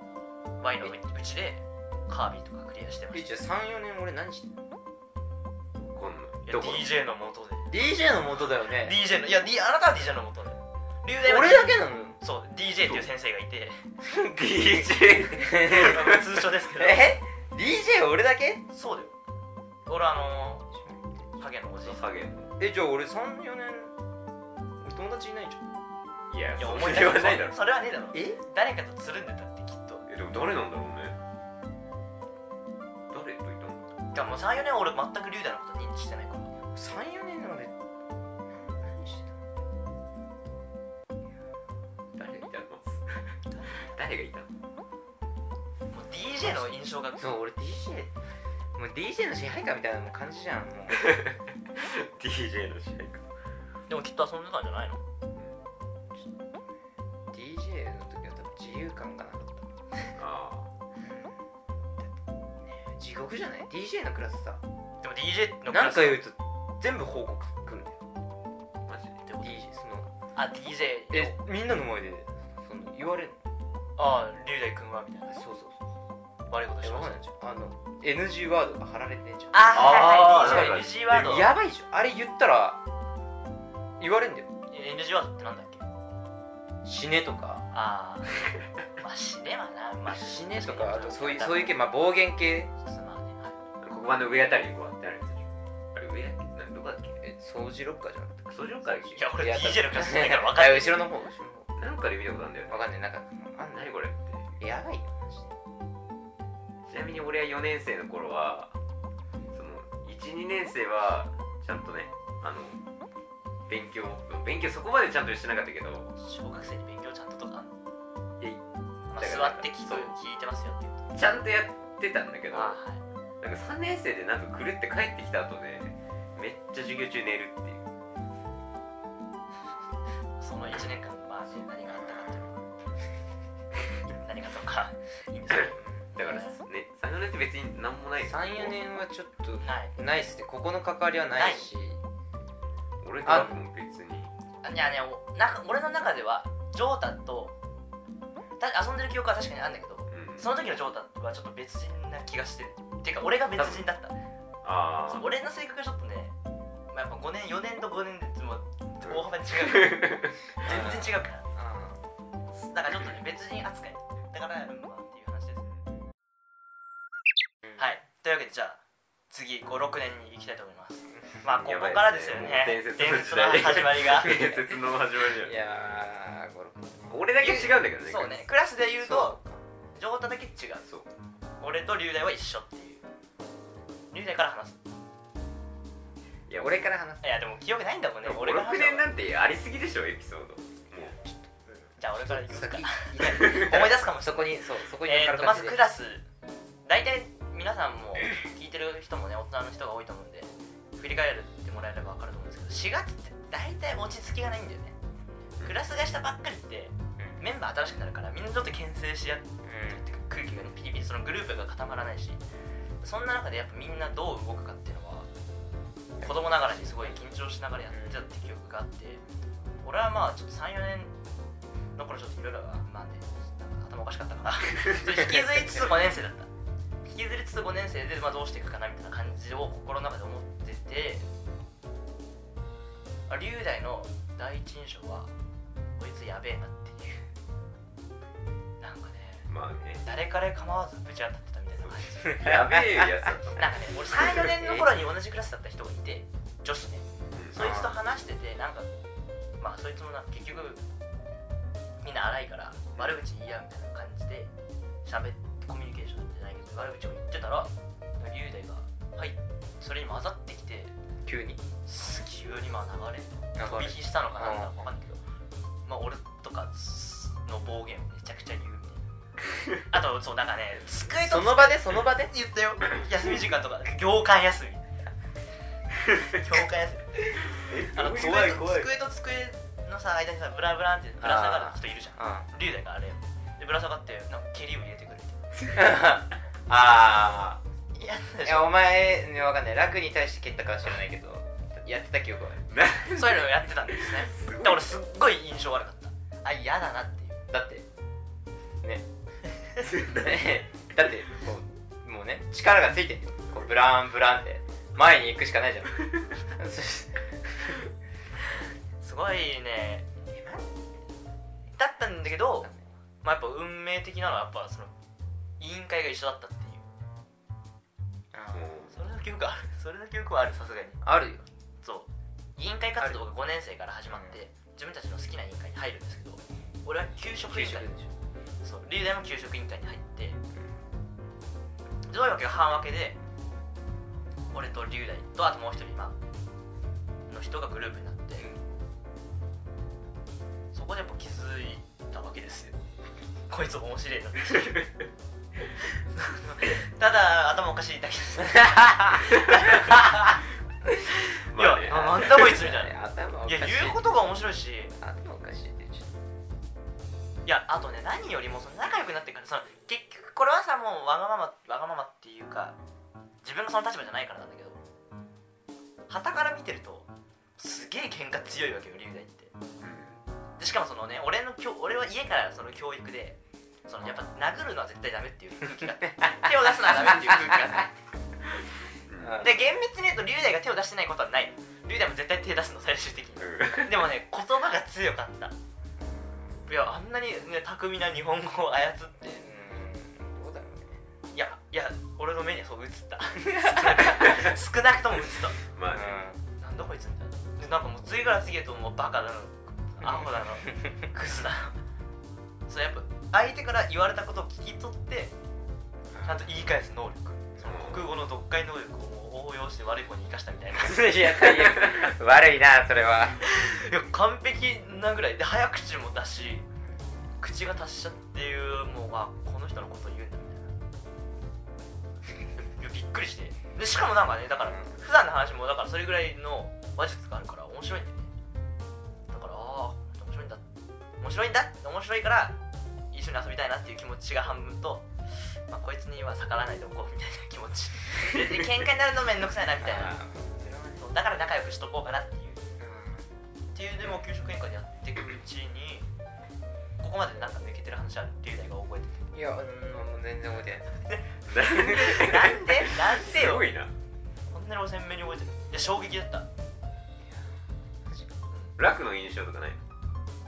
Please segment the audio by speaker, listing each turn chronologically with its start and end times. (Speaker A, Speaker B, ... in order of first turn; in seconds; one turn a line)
Speaker A: 0.6-3.3
Speaker B: 3.1-4.5
Speaker C: 5.8-6.9
Speaker A: 6.5-7.7
Speaker B: 7.7-9.0
Speaker A: 8.6-13.8
Speaker B: 11.2-12.2
Speaker C: 12.8-13.1
Speaker C: 14.0-16.3
Speaker B: 15.4-16.1
Speaker A: 15.5-17.1
Speaker B: 16.8-18.7
Speaker A: 18.7-19.1
Speaker A: 19.9-20.7
Speaker B: 20.7-21.3
Speaker A: 21.4-22.1
Speaker C: 21.8-22.6
Speaker B: 22.6-24.0
Speaker B: 24.8-25.6
Speaker C: 26.3-27.6
Speaker A: 26.6-30.0
Speaker B: 28.1-28.4
Speaker C: 30.1-31.2
Speaker C: 33.1-33.8
Speaker A: 34.1-36.6
Speaker B: 36.8-37.7
Speaker B: 38.5-39.3
Speaker C: 42.1-43.3
Speaker A: 43.5-44.0
Speaker C: 43.9-44.5
Speaker A: 45.9-47.4
Speaker B: 46.4-48.1
Speaker B: 48.8-51.1
Speaker C: 50.9-53.2
Speaker A: 53.9-55.0
Speaker B: 57.3-59.7
Speaker C: 60.1-60.7
Speaker B: 61.0-61.4
Speaker B: 62.6-64.6
Speaker A: 65.0-66.2
Speaker B: 65.7-68.0
Speaker C: 68.9-69.2
Speaker A: 69.3-69.6
Speaker B: 69.4-70.1
Speaker A: 70.3-71.4
Speaker B: 71.1-73.4
Speaker A: 74.0-75.4
Speaker B: 75.4-75.8
Speaker A: 76.5-77.2
Speaker B: 76.8-82.8
Speaker A: 79.5-81.5
Speaker C: 79.7-81.5
Speaker B: 84.0-84.5
Speaker A: 84.7-85.8
Speaker B: 86.8-87.7
Speaker A: 87.7-88.5
Speaker A: 89.0-91.8
Speaker B: 90.1-92.7
Speaker A: 92.8-93.6
Speaker C: 93.8-97.2
Speaker B: 97.2-101.7
Speaker C: 98.5-99.3
Speaker A: 99.1-101.1
Speaker C: 101.8-102.9
Speaker B: 102.7-103.9
Speaker C: 103.7-104.6
Speaker B: 104.6-105.5
Speaker C: 106.9-108.7
Speaker C: 109.5-112.8
Speaker C: 113.7-116.1
Speaker A: 116.2-117.7
Speaker A: 119.1-121.0
Speaker C: 119.2-120.1
Speaker C: 121.1-122.8
Speaker A: 122.5-123.0
Speaker C: 123.4-127.8
Speaker A: 130.4-132.6
Speaker A: 134.1-136.6
Speaker C: 135.5-138.8
Speaker B: 135.8-136.1
Speaker B: 138.2-142.0
Speaker A: 139.6-139.9
Speaker A: 141.3-141.7
Speaker C: 143.0-144.3
Speaker B: 143.2-143.6
Speaker A: 144.6-147.6
Speaker A: 148.6-154.2
Speaker C: 150.1-150.5
Speaker C: 153.6-153.9
Speaker C: 154.6-155.3
Speaker A: 155.1-156.3
Speaker A: 156.9-161.4
Speaker C: 159.0-160.3
Speaker B: 160.6-162.0
Speaker A: 162.6-165.7
Speaker A: 167.8-174.5
Speaker C: 171.4-175.6
Speaker B: 174.2-174.7
Speaker B: 175.4-177.2
Speaker C: 177.1-178.5
Speaker A: 177.4-179.4
Speaker B: 179.0-179.6
Speaker A: 179.9-180.9
Speaker A: 181.6-183.0
Speaker A: 184.1-184.8
Speaker C: 186.5-186.9
Speaker B: 186.6-187.3
Speaker A: 187.2-189.1
Speaker C: 188.2-191.2
Speaker B: 191.2-195.8
Speaker A: 192.0-196.2
Speaker C: 193.2-193.9
Speaker A: 196.9-205.0
Speaker A: 205.6-212.4
Speaker B: 209.6-210.1
Speaker A: 213.0-215.3
Speaker B: 216.2-217.2
Speaker A: 216.2-219.2
Speaker B: 217.9-218.2
Speaker A: 219.8-221.1
Speaker A: 222.0-226.5
Speaker A: 227.0-231.3
Speaker A: 233.3-235.3
Speaker A: 236.0-237.3
Speaker A: 238.8-239.5
Speaker C: 239.5-240.0
Speaker A: 240.0-242.6
Speaker C: 241.8-244.4
Speaker B: 242.2-243.3
Speaker A: 243.6-248.9
Speaker B: 244.4-244.9
Speaker C: 247.3-247.6
Speaker B: 247.6-248.0
Speaker A: 249.6-250.8
Speaker A: 252.0-254.5
Speaker A: 255.1-260.9
Speaker B: 261.2-261.6
Speaker A: 261.9-265.2
Speaker B: 263.6-264.8
Speaker A: 265.9-269.0
Speaker A: 269.9-274.9
Speaker B: 271.2-272.3
Speaker A: 276.2-285.4
Speaker C: 277.5-278.9
Speaker B: 281.2-282.5
Speaker B: 285.7-287.6
Speaker A: 287.9-288.7
Speaker B: 288.4-292.7
Speaker C: 292.7-295.0
Speaker A: 293.1-297.4
Speaker B: 297.5-297.9
Speaker B: 298.8-299.1
Speaker C: 299.8-300.6
Speaker B: 300.2-307.9
Speaker A: 309.0-310.1
Speaker B: 310.3-310.7
Speaker A: 311.7-312.7
Speaker B: 312.4-312.9
Speaker A: 313.2-314.9
Speaker A: 315.6-316.9
Speaker B: 318.3-318.8
Speaker C: 318.5-319.0
Speaker A: 318.9-321.0
Speaker B: 321.0-321.5
Speaker A: 321.8-327.9
Speaker B: 324.1-324.4
Speaker B: 327.5-328.1
Speaker A: 328.6-330.4
Speaker A: 332.1-333.2
Speaker A: 334.5-336.2
Speaker A: 337.3-338.5
Speaker B: 338.4-338.6
Speaker A: 340.7-342.8
Speaker A: 343.5-344.9
Speaker A: 345.9-350.4
Speaker B: 348.6-349.2
Speaker C: 351.5-352.5
Speaker A: 351.5-352.9
Speaker B: 351.9-354.1
Speaker A: 353.5-354.9
Speaker B: 355.0-356.1
Speaker A: 357.4-362.8
Speaker A: 363.4-364.8
Speaker A: 366.1-367.1
Speaker A: 367.6-369.5
Speaker C: 369.8-370.2
Speaker A: 370.6-377.9
Speaker B: 377.3-377.6
Speaker C: 379.1-379.4
Speaker B: 379.2-379.6
Speaker A: 379.4-385.6
Speaker C: 383.4-384.1
Speaker B: 386.1-386.4
Speaker A: 386.7-389.5
Speaker B: 389.4-391.0
Speaker A: 391.3-395.6
Speaker B: 393.5-394.0
Speaker C: 395.7-396.2
Speaker B: 395.9-396.4
Speaker A: 396.6-401.8
Speaker B: 400.0-400.9
Speaker A: 402.7-405.3
Speaker B: 406.1-406.5
Speaker A: 406.2-411.4
Speaker C: 407.6-408.1
Speaker B: 410.7-413.4
Speaker A: 413.4-416.7
Speaker A: 417.4-420.7
Speaker A: 422.8-428.3
Speaker B: 424.6-424.9
Speaker A: 429.3-430.6
Speaker A: 431.2-432.6
Speaker A: 433.1-440.2
Speaker B: 439.8-441.1
Speaker A: 441.0-442.6
Speaker B: 442.8-443.3
Speaker A: 443.7-446.1
Speaker A: 447.0-449.2
Speaker B: 449.3-450.9
Speaker A: 451.1-453.7
Speaker C: 451.5-453.9
Speaker A: 454.5-456.5
Speaker B: 457.2-458.3
Speaker C: 458.8-459.8